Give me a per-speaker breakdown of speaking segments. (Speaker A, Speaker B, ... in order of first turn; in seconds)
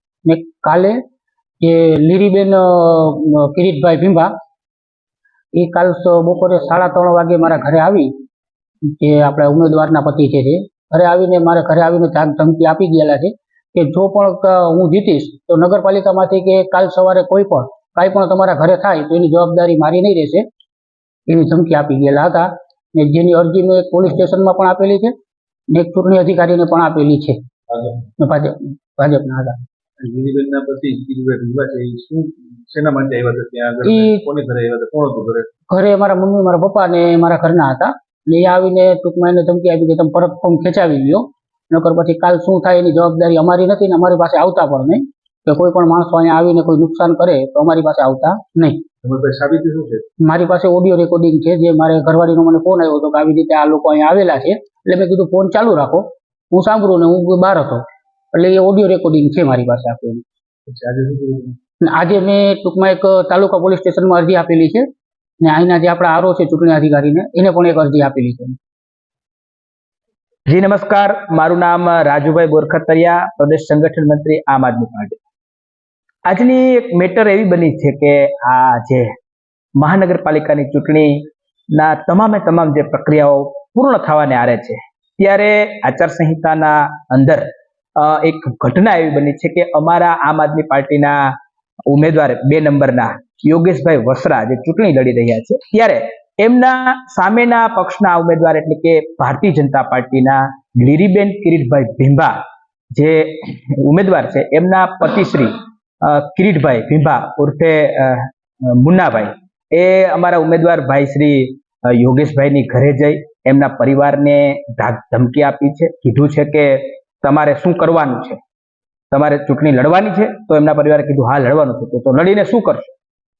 Speaker A: 0.2-1.0, 1.6-4.3, 5.5-8.1, 8.9-20.4, 21.3-25.1, 25.7-27.4, 28.2-29.6, 33.8-34.2, 35.7-48.8, 50.2-60.2, 61.8-64.8, 65.4-68.6
Speaker B: 30.0-35.5, 49.0-50.1, 60.7-61.6
Speaker C: 70.5-75.2, 76.3-79.1, 79.8-87.4, 88.0-91.3, 91.9-102.3, 102.9-118.4, 119.1-122.9